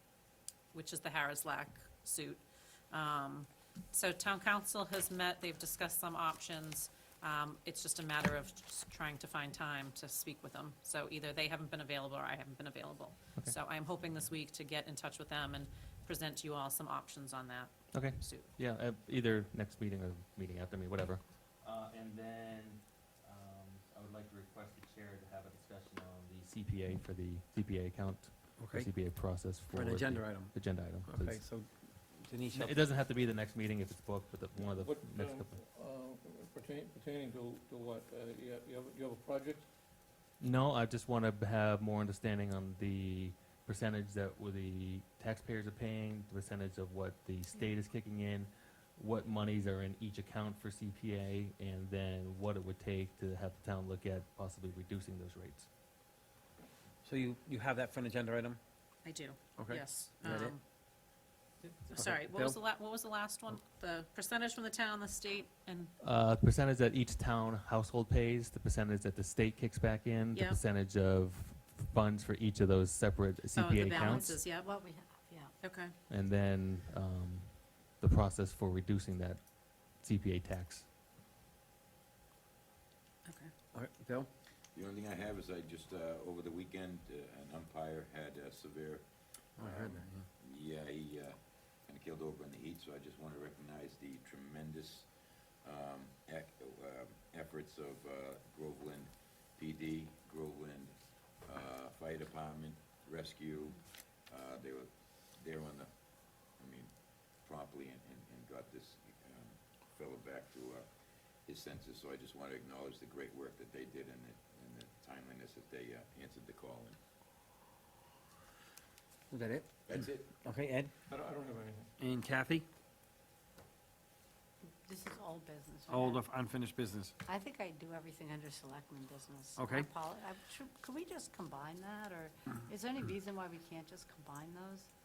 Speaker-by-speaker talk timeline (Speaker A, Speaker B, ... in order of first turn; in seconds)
Speaker A: 0.7-18.5, 59.0-60.6, 61.9-65.9, 70.3-70.6, 73.5-74.7, 75.6-75.9, 83.2-83.5
Speaker B: 17.9-31.4, 32.5-35.5, 40.4-55.7, 66.0-74.3, 76.1-80.9
Speaker C: 28.6-28.9, 29.7-30.6, 31.1-32.9, 57.0-58.6, 59.6-60.5, 61.9-62.6, 83.7-84.3, 89.6-90.2, 119.3-120.9, 122.0-122.7, 125.9-127.1, 129.6-129.9
Speaker D: 34.6-39.6, 121.1-121.9
Speaker E: 73.8-75.5, 124.8-126.2, 127.2-134.9
Speaker F: 84.7-105.9, 106.5-110.9, 111.4-117.0, 119.9-120.3